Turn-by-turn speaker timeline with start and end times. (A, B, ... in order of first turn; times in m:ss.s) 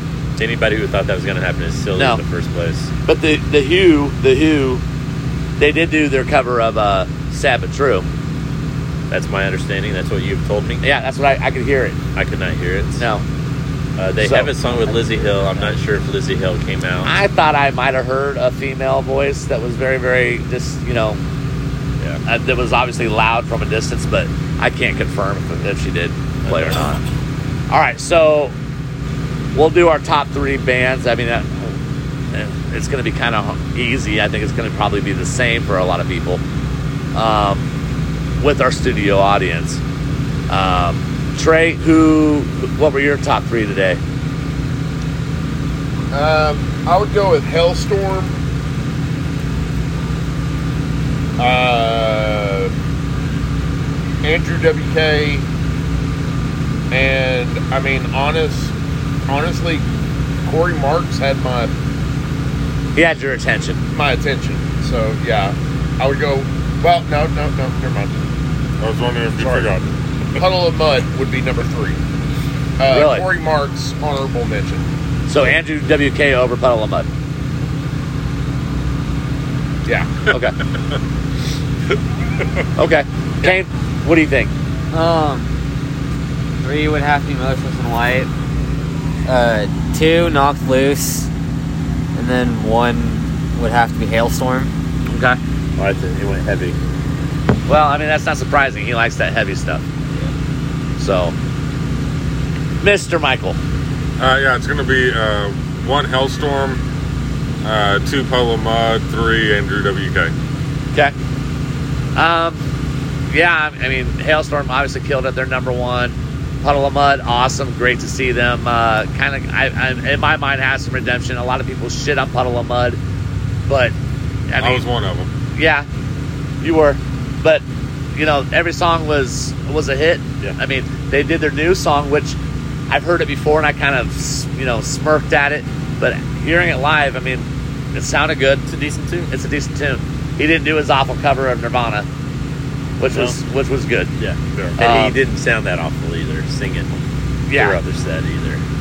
0:00.4-0:02.9 A
0:03.1-0:04.8 B
0:05.6-0:08.1 B
0:09.1-0:10.8 A
0:10.8-0:12.0 B
0:12.1-0:13.0 A
0:13.0-0:13.2 B
0:14.0-0:17.1 A
0:14.2-0:14.5 B
0:17.0-0:21.2 B
0:22.3-0:27.0 B
0:26.4-0:26.8 A
0:27.7-0:28.6 B
0:29.5-0:31.8 B
0:32.3-0:36.4 B
0:37.1-0:37.7 B
0:38.4-0:39.8 B
0:40.5-0:44.0 B
0:46.1-0:48.3 C
0:51.4-0:52.7 C
0:54.2-0:55.4 C
0:56.9-0:58.7 C
0:59.3-0:59.8 C
1:00.4-1:01.7 C
1:02.9-1:03.8 B
1:03.9-1:08.2 C
1:08.8-1:10.4 D
1:09.4-1:09.7 C
1:10.4-1:12.0 C
1:12.8-1:14.9 C
1:12.9-1:13.3 B
1:15.3-1:17.1 B
1:19.9-1:20.2 C
1:22.8-1:24.5 B
1:24.9-1:25.5 E
1:26.6-1:28.3 E
1:29.3-1:31.3 E
1:32.1-1:34.7 E
1:35.1-1:35.4 B
1:35.8-1:36.8 A
1:37.7-1:39.8 B
1:41.0-1:41.3 B
1:42.8-1:43.6 B
1:44.2-1:46.8 D
1:47.6-1:50.3 D
1:52.1-1:52.6 B
1:53.3-2:03.0 B
2:03.7-2:03.9 B
2:04.5-2:04.8 B
2:04.6-2:05.3 D
2:05.6-2:05.9 B
2:06.6-2:07.6 B
2:08.1-2:12.4 B
2:12.9-2:18.6 B
2:18.7-2:19.3 A
2:19.3-2:22.1 B
2:23.0-2:24.1 B
2:23.1-2:23.4 A
2:24.2-2:27.0 A
2:24.8-2:25.2 B
2:27.5-2:27.8 B
2:27.5-2:28.6 A